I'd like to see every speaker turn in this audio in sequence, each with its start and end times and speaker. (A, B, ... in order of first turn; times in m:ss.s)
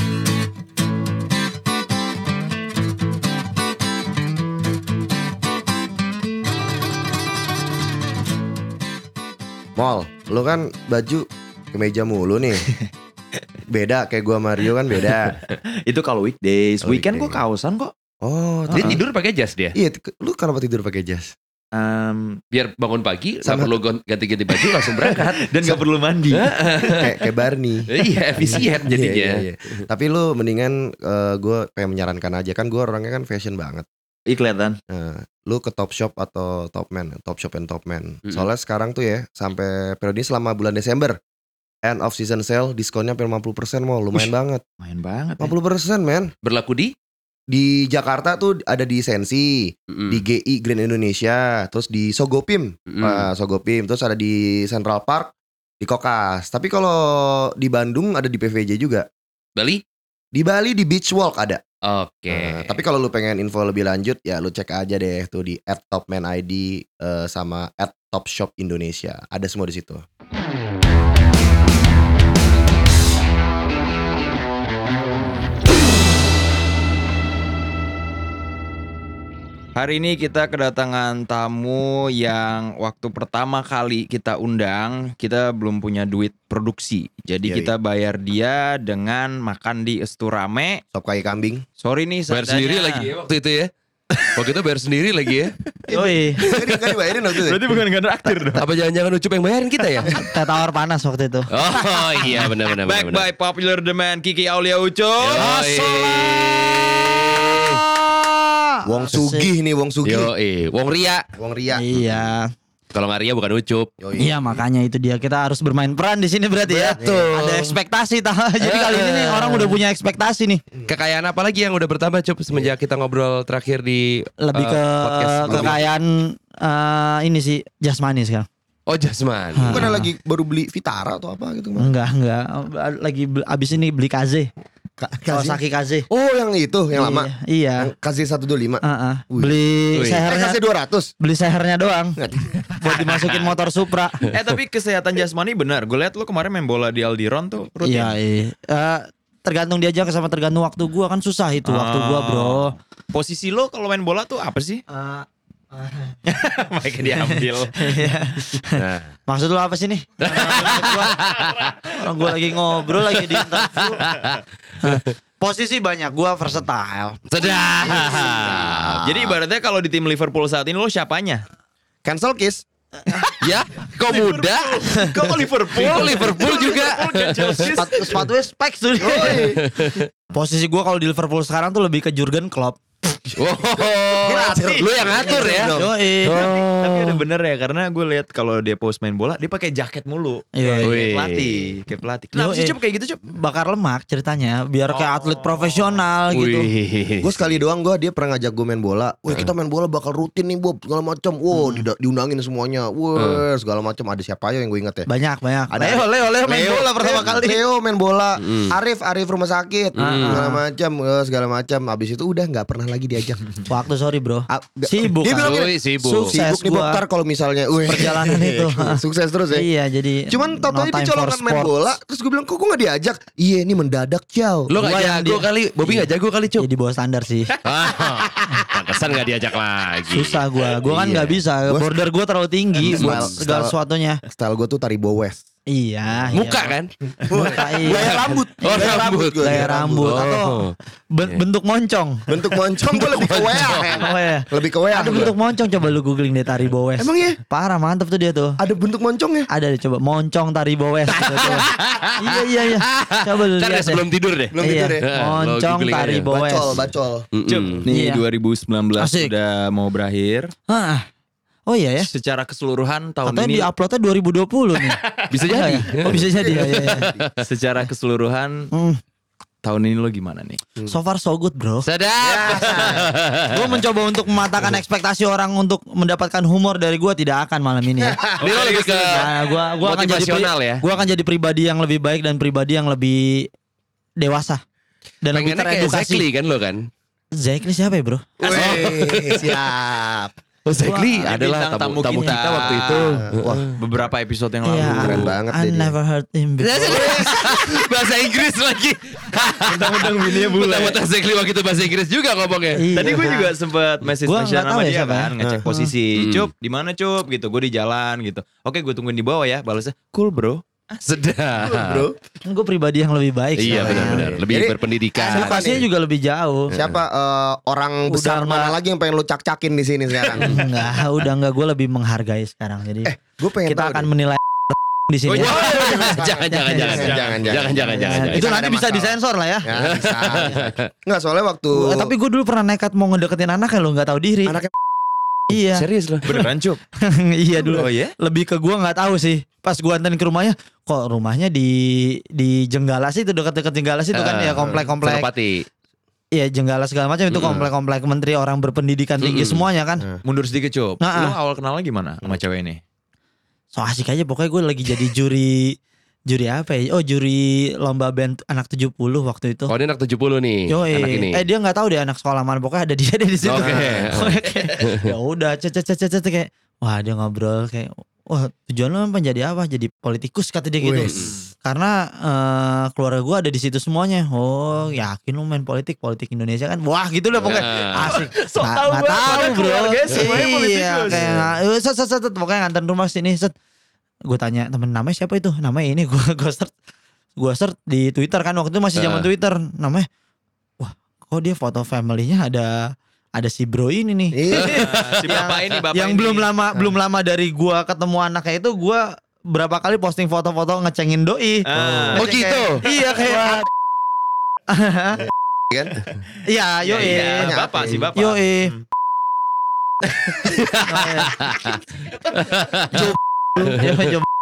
0:09.8-0:12.7 A
0:13.7-0:15.4 A
0:15.5-0:17.9 B
0:16.8-0:17.4 A
0:18.2-0:19.0 A
0:18.7-0:19.0 B
0:18.7-0:19.8 C
0:19.7-0:21.3 A
0:21.7-0:22.4 B
0:22.5-0:25.2 C
0:23.4-0:23.8 A
0:25.0-0:27.1 B
0:25.6-0:25.8 A
0:26.3-0:27.1 C
0:26.9-0:27.9 A
0:27.9-0:29.8 C
0:28.0-0:28.7 B
0:28.4-0:33.8 A
0:34.3-0:34.8 B
0:34.9-0:41.2 A
0:41.8-0:44.6 A
0:44.8-0:45.5 B
0:45.4-0:46.3 A
0:46.4-0:46.9 C
0:47.5-0:59.1 A
0:49.9-0:50.2 C
0:52.9-0:53.2 C
0:59.6-0:59.8 C
1:00.3-1:01.6 A
1:01.8-1:02.8 C
1:02.3-1:10.0 A
1:19.8-1:30.8 B
1:27.4-1:27.7 A
1:30.9-1:31.6 A
1:31.8-1:33.1 B
1:32.3-1:35.5 C
1:35.9-1:36.4 D
1:35.9-1:37.6 A
1:35.9-1:36.5 B
1:37.3-1:38.6 B
1:38.5-1:40.2 C
1:40.2-1:41.5 D
1:41.5-1:43.2 C
1:41.8-1:45.5 B
1:45.2-1:47.8 C
1:45.4-1:46.6 D
1:47.3-1:49.5 D
1:48.8-1:50.3 A
1:50.0-1:51.2 C
1:51.4-1:51.8 A
1:51.7-1:52.5 D
1:52.9-1:53.9 C
1:54.0-1:54.6 A
1:54.2-2:00.6 D
1:56.7-1:57.8 C
1:57.0-1:57.4 A
1:58.6-1:59.8 C
2:00.9-2:05.8 C
2:04.4-2:08.5 D
2:05.4-2:05.8 A
2:08.9-2:09.9 C
2:09.6-2:10.0 D
2:09.6-2:11.9 A
2:11.8-2:14.5 D
2:15.0-2:21.1 A
2:15.3-2:16.0 D
2:16.9-2:17.9 D
2:18.8-2:20.6 D
2:19.9-2:20.2 C
2:21.2-2:22.2 D
2:22.2-2:22.5 A
2:22.8-2:24.2 D
2:24.3-2:28.1 B
2:27.8-2:32.7 D
2:31.6-2:34.8 B
2:34.9-2:36.2 D
2:36.3-2:38.1 B
2:37.2-2:38.8 D
2:38.7-2:39.1 C
2:39.3-2:41.1 D
2:40.2-2:41.8 C
2:40.4-2:41.0 B
2:41.9-2:44.0 D
2:43.0-2:45.1 C
2:44.8-2:47.2 D
2:47.3-2:49.0 C
2:47.8-2:49.3 A
2:49.0-2:51.4 B
2:52.0-2:52.6 A
2:53.4-2:55.1 C
2:54.1-2:58.3 B
2:55.7-2:57.8 C
2:57.8-2:59.4 D
2:59.0-2:59.6 A
2:59.4-3:00.1 C
3:00.3-3:02.8 D
3:03.4-3:06.5 C
3:04.2-3:05.5 B
3:04.2-3:05.9 A
3:05.2-3:07.2 D
3:06.2-3:13.2 B
3:10.5-3:11.1 D
3:10.8-3:11.7 C
3:12.3-3:12.7 D
3:13.3-3:16.7 D
3:14.9-3:16.0 B
3:16.3-3:17.6 C
3:17.2-3:25.1 A
3:21.5-3:21.8 D
3:25.1-3:27.5 D
3:25.7-3:33.5 A
3:28.4-3:28.7 C
3:30.0-3:30.4 C
3:30.0-3:30.6 D
3:33.7-3:37.0 D
3:34.5-3:39.7 A
3:35.4-3:36.3 C
3:37.9-3:41.7 D
3:40.3-3:44.7 A
3:44.7-3:46.7 C
3:44.8-3:47.6 D
3:47.6-3:50.4 C
3:50.1-3:54.2 D
3:50.9-3:51.9 A
3:52.8-3:55.4 A
3:52.8-3:53.3 C
3:55.7-3:56.7 D
3:56.3-4:00.7 C
3:57.2-4:00.3 A
3:57.3-4:02.3 D
4:02.3-4:05.3 A
4:02.9-4:04.0 C
4:04.0-4:08.6 D
4:07.0-4:07.4 A
4:08.6-4:09.5 A
4:09.5-4:11.7 D
4:11.1-4:16.2 C
4:11.4-4:11.6 A
4:12.2-4:14.1 D
4:14.5-4:15.0 A
4:14.6-4:16.7 D
4:16.3-4:17.3 A
4:17.3-4:17.8 C
4:17.5-4:20.5 B
4:17.9-4:18.2 D
4:19.0-4:19.3 D
4:20.7-4:21.0 D
4:21.7-4:22.1 D
4:22.0-4:23.7 B
4:23.2-4:27.1 D
4:25.3-4:27.4 C
4:26.3-4:27.2 A
4:27.4-4:28.7 B
4:28.7-4:29.0 D
4:29.6-4:30.6 B
4:30.9-4:31.8 D
4:31.8-4:33.8 C
4:32.2-4:33.1 A
4:33.5-4:38.2 D
4:38.0-4:38.5 A
4:38.4-4:39.3 C
4:38.4-4:39.0 B
4:39.0-4:43.5 D
4:39.8-4:40.8 C
4:44.2-4:44.6 D
4:45.2-4:46.2 D
4:45.3-4:46.9 C
4:47.4-4:48.4 D
4:48.4-4:50.3 A
4:48.4-4:49.6 C
4:50.6-4:53.7 C
4:50.8-4:51.2 D
4:51.2-4:53.2 B
4:53.2-4:53.7 A
4:53.8-4:55.3 B
4:54.6-4:57.2 D
4:54.8-4:55.9 A
4:56.6-5:02.9 C
4:59.6-5:01.0 B
5:02.7-5:03.5 D
5:02.9-5:10.6 B
5:04.2-5:05.9 D
5:06.1-5:06.5 C
5:11.0-5:12.1 C
5:11.6-5:12.2 A
5:12.4-5:14.2 D
5:13.6-5:15.8 C
5:13.6-5:15.8 A
5:15.2-5:16.7 D
5:16.7-5:20.7 A
5:18.1-5:18.7 D
5:20.4-5:23.1 D
5:23.0-5:24.1 A
5:23.7-5:25.6 D
5:25.3-5:28.5 C
5:25.4-5:26.2 B
5:25.4-5:32.1 A
5:26.5-5:27.1 D
5:27.0-5:27.7 B
5:27.8-5:29.7 D
5:29.8-5:30.8 C
5:31.7-5:34.6 D
5:35.5-5:35.9 D
5:35.5-5:36.2 C
5:36.2-5:36.8 B
5:37.0-5:45.3 D
5:37.7-5:38.1 B
5:44.1-5:45.7 C
5:46.3-5:50.0 D
5:47.3-5:47.7 C
5:49.2-5:49.6 C
5:50.2-5:52.8 B
5:51.0-5:51.4 D
5:53.7-5:55.8 D
5:56.3-5:59.7 D
5:59.7-6:01.4 C
6:00.7-6:23.5 D
6:03.4-6:05.0 C
6:10.8-6:11.3 A
6:11.1-6:11.3 C
6:17.4-6:18.2 C
6:18.0-6:21.2 B
6:21.1-6:21.5 A
6:24.3-6:26.7 D
6:27.4-6:30.1 D
6:29.0-6:29.3 C
6:30.8-6:43.7 D
6:34.3-6:34.8 A
6:34.7-6:36.5 B
6:34.8-6:35.3 C
6:41.7-6:42.3 B
6:41.7-6:42.3 A
6:42.1-6:42.8 C
6:43.3-6:43.6 A
6:44.7-6:45.3 D
6:45.7-6:46.0 A
6:46.4-6:47.5 D
6:46.8-6:48.8 B
6:47.0-6:48.1 A
6:48.2-6:48.7 D
6:50.4-6:51.8 C
6:50.9-6:51.4 D
6:52.4-6:54.0 C
6:52.9-6:54.2 D